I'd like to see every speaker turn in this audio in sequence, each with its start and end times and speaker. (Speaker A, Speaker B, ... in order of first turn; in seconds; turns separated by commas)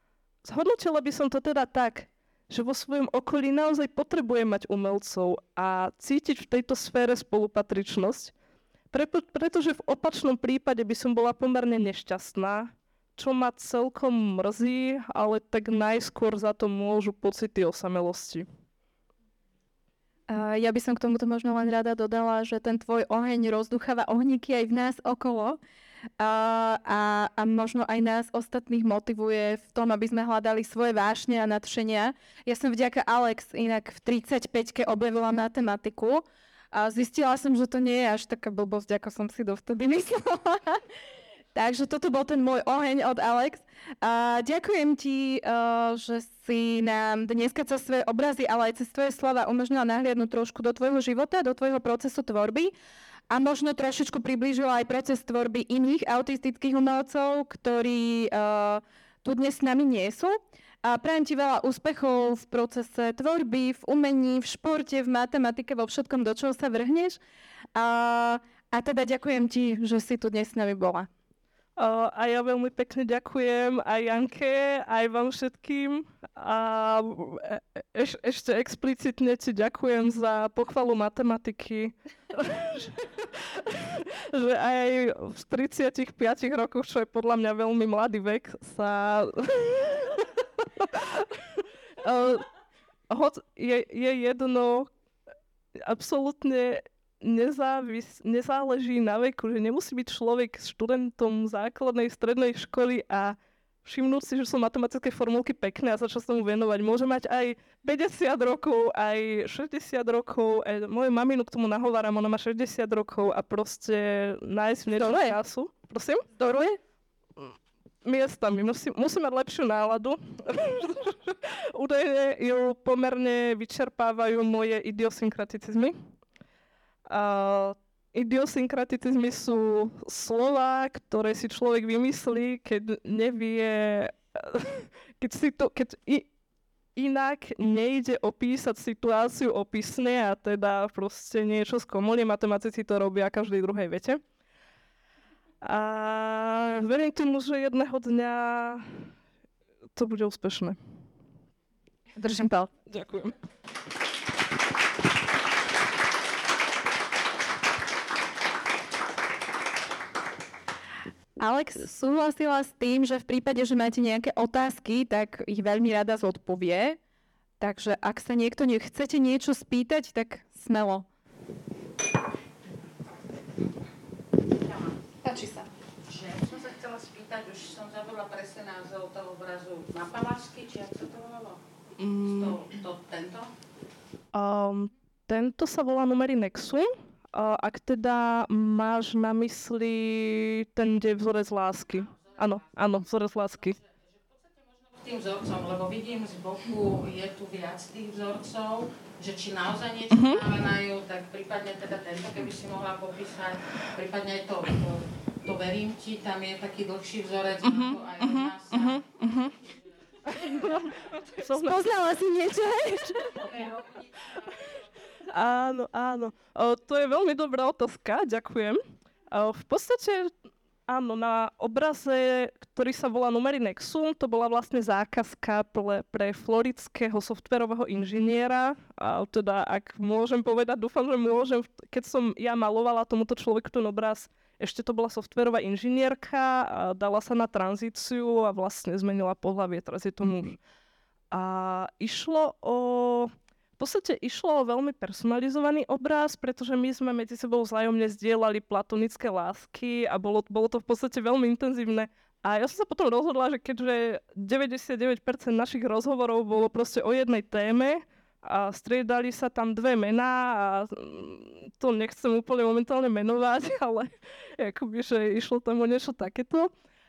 Speaker A: 0.4-8.3, Speaker A: 8.9-18.4, Speaker B: 20.3-25.6, Speaker B: 26.2-40.8, Speaker B: 41.5-52.7, Speaker B: 53.3-67.2, Speaker B: 67.7-71.1, Speaker A: 71.8-92.5, Speaker A: 93.1-94.9, Speaker A: 95.7-116.3, Speaker B: 116.4-116.8, Speaker A: 117.4-125.9, Speaker A: 127.1-136.3, Speaker A: 136.9-144.2, Speaker A: 145.6-148.8, Speaker A: 149.9-150.8, Speaker B: 152.2-152.7, Speaker A: 152.9-153.3, Speaker B: 161.4-167.0, Speaker B: 167.6-171.1, Speaker B: 175.2-175.7, Speaker C: 176.1-181.6, Speaker A: 182.0-182.6, Speaker C: 182.2-183.5, Speaker A: 184.3-193.8, Speaker C: 192.0-192.9, Speaker C: 193.6-209.1, Speaker A: 200.1-200.4, Speaker A: 207.6-209.6, Speaker A: 210.3-211.8, Speaker B: 211.5-213.5, Speaker C: 213.5-214.4, Speaker A: 215.2-218.8, Speaker A: 219.3-220.3, Speaker A: 220.9-240.6, Speaker A: 241.3-266.7